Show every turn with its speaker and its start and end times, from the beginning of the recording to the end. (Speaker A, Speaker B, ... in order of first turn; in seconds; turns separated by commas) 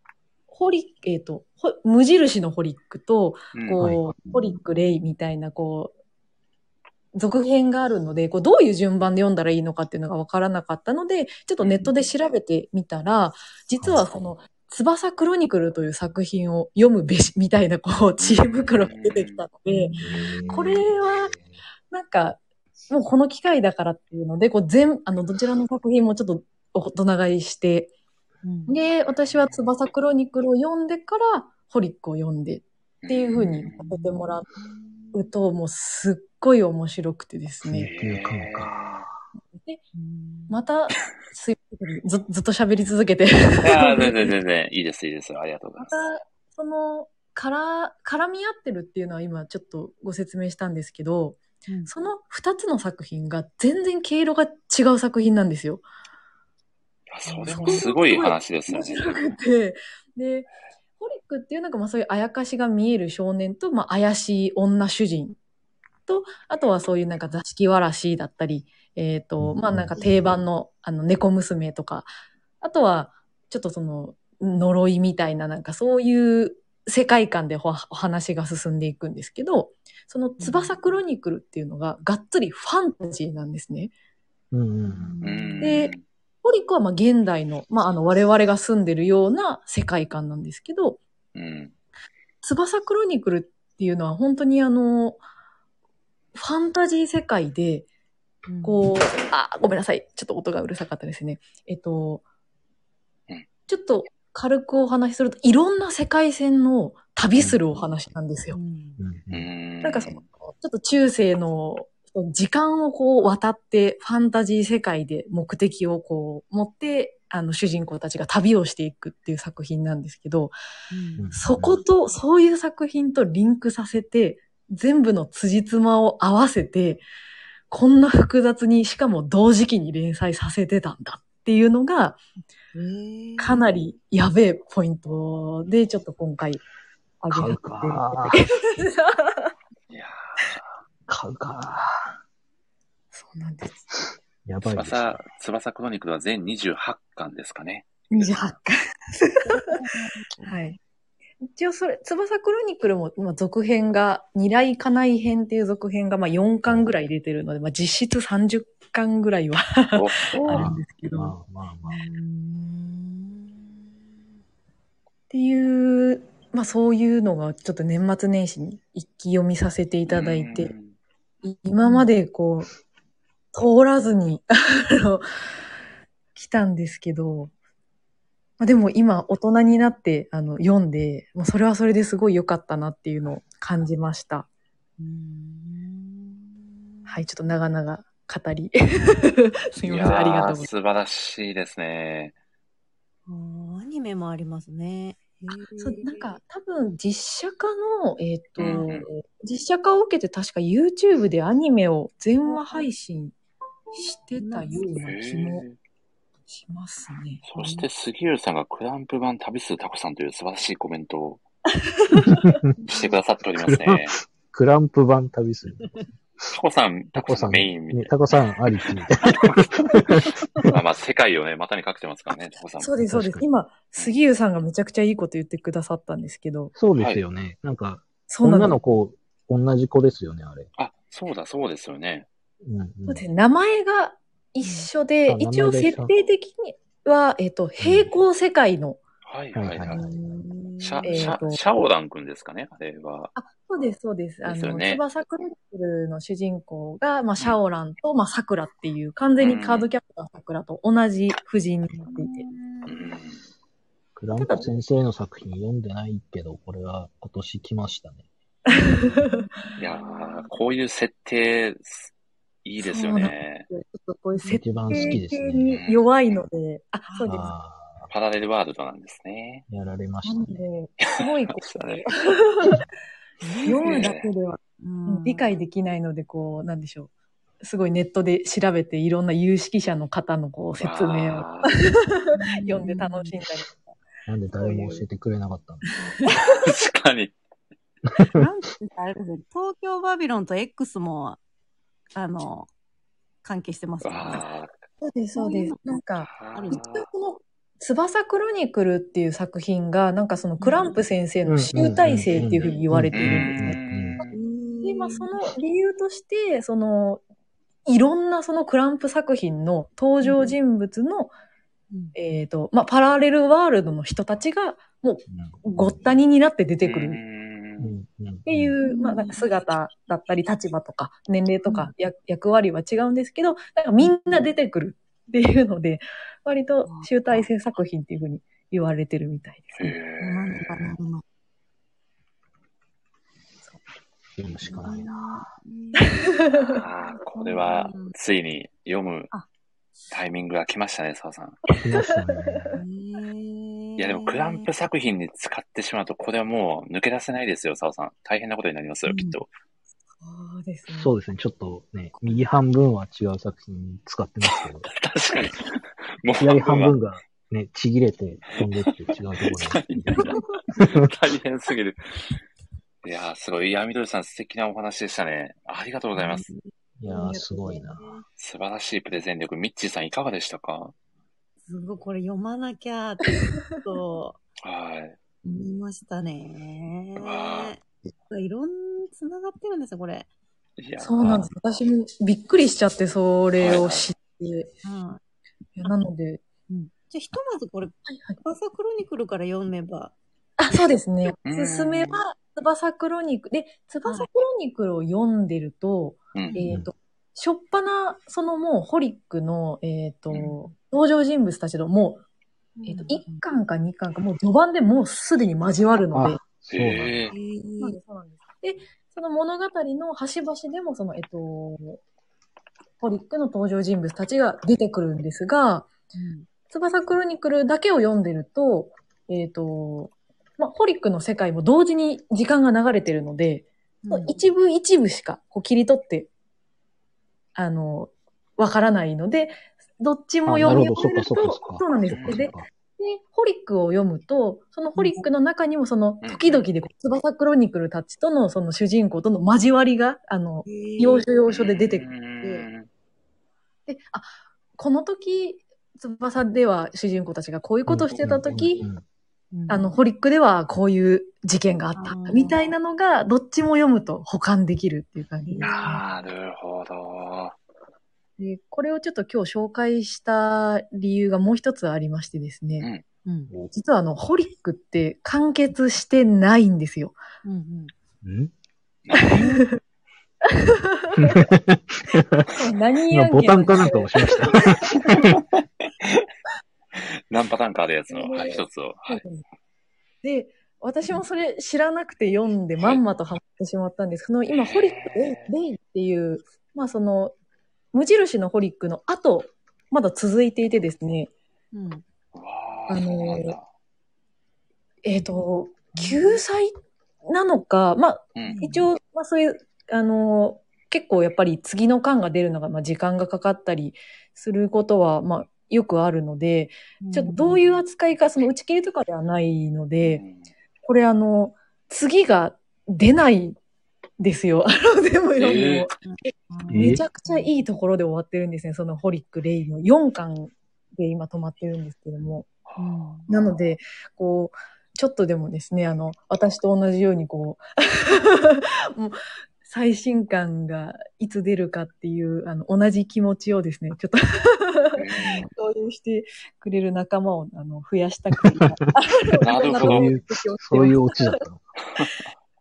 Speaker A: 0.5-5.9, Speaker B: 3.5-3.8, Speaker C: 3.8-4.1, Speaker D: 4.2-4.6, Speaker A: 7.1-19.9, Speaker B: 11.6-11.9, Speaker C: 13.8-14.2, Speaker B: 18.2-19.4, Speaker D: 19.7-20.3, Speaker C: 20.0-21.6, Speaker A: 20.5-21.3, Speaker A: 21.9-27.9, Speaker D: 28.4-28.8, Speaker A: 28.7-34.5, Speaker B: 33.0-33.9, Speaker D: 33.3-35.3, Speaker A: 35.1-37.9, Speaker C: 37.6-39.1, Speaker B: 37.8-39.0, Speaker A: 39.5-39.8, Speaker D: 39.9-40.6, Speaker A: 40.5-44.3, Speaker B: 43.6-46.0, Speaker A: 45.8-55.8, Speaker B: 57.1-59.4, Speaker D: 57.3-57.9, Speaker A: 57.5-65.4, Speaker A: 66.1-72.1, Speaker C: 69.4-70.3, Speaker A: 72.6-83.9, Speaker D: 80.4-80.8, Speaker C: 84.5-85.2, Speaker D: 84.8-85.8, Speaker B: 85.2-86.0, Speaker A: 85.6-91.0, Speaker B: 91.3-91.7, Speaker A: 92.4-95.2, Speaker A: 96.3-97.9, Speaker D: 98.5-98.8, Speaker A: 98.6-102.2, Speaker A: 103.7-108.6, Speaker D: 108.5-109.0, Speaker C: 109.0-109.5, Speaker B: 109.3-110.2, Speaker A: 109.8-120.5, Speaker D: 120.9-121.3, Speaker C: 121.2-121.8, Speaker A: 121.3-127.0, Speaker A: 127.7-132.2, Speaker D: 132.7-133.6, Speaker A: 133.4-136.6, Speaker A: 137.2-139.5, Speaker C: 137.3-138.4, Speaker B: 139.9-140.8, Speaker C: 141.1-142.1, Speaker A: 143.1-143.9, Speaker C: 144.4-145.2, Speaker B: 144.6-148.3, Speaker A: 148.1-149.8, Speaker D: 149.5-150.5, Speaker A: 150.4-150.8, Speaker A: 151.4-161.3, Speaker B: 159.9-160.7, Speaker C: 160.5-162.0, Speaker D: 161.9-163.8, Speaker A: 165.3-170.7, Speaker B: 170.1-170.9, Speaker A: 171.4-172.7, Speaker D: 171.8-172.1, Speaker A: 173.5-175.2, Speaker A: 176.3-177.5, Speaker A: 178.6-184.5, Speaker D: 185.0-187.1, Speaker A: 187.1-190.7, Speaker B: 189.8-192.3, Speaker D: 193.3-196.2, Speaker A: 195.8-203.3, Speaker B: 198.6-199.1, Speaker D: 198.6-198.9, Speaker D: 202.4-202.9, Speaker A: 203.9-205.6, Speaker D: 204.4-205.1, Speaker B: 205.0-205.8, Speaker A: 206.7-207.4, Speaker B: 207.4-211.4, Speaker D: 207.6-207.9, Speaker A: 211.8-212.6, Speaker C: 212.2-212.7, Speaker B: 212.8-214.2, Speaker C: 213.6-216.5, Speaker B: 216.5-218.2, Speaker C: 217.1-220.7, Speaker B: 219.2-222.9, Speaker A: 222.8-226.7, Speaker C: 223.1-223.4, Speaker C: 226.7-230.7, Speaker B: 227.0-227.2, Speaker A: 228.3-228.8, Speaker B: 230.8-232.3, Speaker C: 232.6-233.2, Speaker A: 233.1-239.0, Speaker D: 234.6-234.9, Speaker C: 235.3-236.1, Speaker C: 237.8-238.1, Speaker B: 239.2-240.0, Speaker C: 239.5-240.1, Speaker D: 239.9-241.3, Speaker B: 240.8-243.3, Speaker A: 241.0-241.6, Speaker A: 243.3-252.4, Speaker B: 244.4-245.0, Speaker B: 249.4-249.9, Speaker D: 251.9-252.9, Speaker B: 252.8-253.4, Speaker C: 254.2-258.2, Speaker A: 258.7-259.5, Speaker D: 258.8-260.5, Speaker B: 259.8-262.1, Speaker B: 262.6-263.7, Speaker A: 262.8-267.5, Speaker D: 264.4-265.2, Speaker C: 264.5-265.8, Speaker B: 265.7-266.1, Speaker D: 267.1-267.3, Speaker C: 267.2-268.1, Speaker B: 268.1-269.6, Speaker C: 269.7-270.6, Speaker A: 270.2-272.9, Speaker B: 271.0-272.1, Speaker D: 273.4-274.1, Speaker A: 273.6-277.1, Speaker B: 273.8-274.3, Speaker D: 274.8-275.5, Speaker A: 277.6-283.9, Speaker B: 280.8-281.7, Speaker D: 282.3-283.3, Speaker C: 284.3-285.9, Speaker A: 284.6-285.0, Speaker A: 286.0-286.6, Speaker B: 286.3-287.3, Speaker D: 288.3-291.4, Speaker D: 292.1-292.7, Speaker D: 293.4-294.4, Speaker B: 294.0-294.7, Speaker A: 295.0-303.8, Speaker D: 295.4-296.0, Speaker B: 296.2-297.1, Speaker D: 296.5-296.8, Speaker D: 300.6-300.9, Speaker C: 301.4-304.2, Speaker B: 303.1-304.4, Speaker D: 304.3-305.5, Speaker A: 304.8-307.2, Speaker A: 307.9-311.3, Speaker D: 310.2-310.6, Speaker A: 312.1-317.2, Speaker C: 315.3-316.1, Speaker B: 316.8-317.9, Speaker C: 317.8-318.7, Speaker A: 318.4-329.9, Speaker D: 318.8-319.5, Speaker D: 321.6-321.9, Speaker D: 324.0-324.4, Speaker D: 326.9-327.5, Speaker B: 329.7-330.9, Speaker D: 330.2-331.2, Speaker C: 334.4-335.5, Speaker D: 334.6-338.1, Speaker A: 336.0-336.8, Speaker B: 336.5-339.3, Speaker B: 340.1-341.6, Speaker C: 341.8-342.8, Speaker A: 342.1-342.8, Speaker D: 342.7-344.7, Speaker B: 344.0-349.5, Speaker D: 349.1-349.4, Speaker A: 350.2-351.1, Speaker C: 350.9-354.9, Speaker D: 352.1-352.4, Speaker B: 354.8-356.9, Speaker C: 356.4-361.1, Speaker B: 358.6-362.0, Speaker B: 363.0-366.5, Speaker D: 366.1-368.2, Speaker C: 367.0-368.1, Speaker B: 368.4-370.9, Speaker D: 371.7-374.4, Speaker A: 373.4-373.8, Speaker B: 374.6-375.2, Speaker D: 375.4-380.3, Speaker B: 377.2-377.7, Speaker B: 380.8-381.5, Speaker A: 381.0-384.7, Speaker B: 383.6-384.1, Speaker D: 384.8-385.2, Speaker A: 385.8-386.4, Speaker D: 386.7-390.1, Speaker A: 388.1-388.4, Speaker A: 390.6-402.2, Speaker B: 391.4-392.2, Speaker D: 396.5-396.7, Speaker D: 402.8-403.4, Speaker A: 402.9-406.4, Speaker C: 406.1-407.3, Speaker B: 406.7-407.3, Speaker D: 407.3-408.0, Speaker A: 407.8-412.0, Speaker A: 413.0-415.9, Speaker D: 416.1-416.5, Speaker A: 416.7-426.3, Speaker D: 424.0-424.4, Speaker A: 427.6-442.1, Speaker C: 430.4-432.6, Speaker B: 432.1-432.4, Speaker D: 434.9-435.2, Speaker B: 436.2-436.7, Speaker D: 440.6-441.3, Speaker B: 441.5-442.9, Speaker A: 443.9-448.8, Speaker C: 447.9-449.0, Speaker D: 449.5-449.9, Speaker A: 449.7-455.8, Speaker D: 451.9-452.7, Speaker D: 455.4-456.0, Speaker B: 455.6-457.6, Speaker A: 458.4-462.9, Speaker B: 462.8-463.0, Speaker D: 463.2-463.5, Speaker A: 463.7-467.2, Speaker D: 467.4-467.9, Speaker C: 468.2-468.5, Speaker B: 469.1-469.4, Speaker A: 469.1-469.8, Speaker D: 469.3-469.6, Speaker A: 470.5-471.5, Speaker C: 471.2-472.5, Speaker A: 472.6-475.1, Speaker C: 473.1-475.4, Speaker B: 475.0-476.3, Speaker B: 476.9-479.2, Speaker A: 478.1-479.4, Speaker A: 480.2-487.3, Speaker B: 484.5-485.5, Speaker A: 487.9-491.3, Speaker D: 491.7-492.0, Speaker B: 492.3-493.6, Speaker A: 492.9-493.6, Speaker A: 495.0-496.7, Speaker D: 495.9-496.4, Speaker A: 497.2-510.2, Speaker B: 498.4-498.6, Speaker D: 498.4-498.9, Speaker D: 507.0-507.7, Speaker B: 510.0-510.5, Speaker A: 510.8-513.6, Speaker A: 514.2-522.5, Speaker B: 515.4-515.9, Speaker D: 516.0-517.5, Speaker C: 516.7-517.0, Speaker D: 522.8-523.3, Speaker A: 523.3-541.4, Speaker B: 534.9-535.5, Speaker B: 539.4-540.1, Speaker C: 539.7-541.6, Speaker B: 541.9-542.3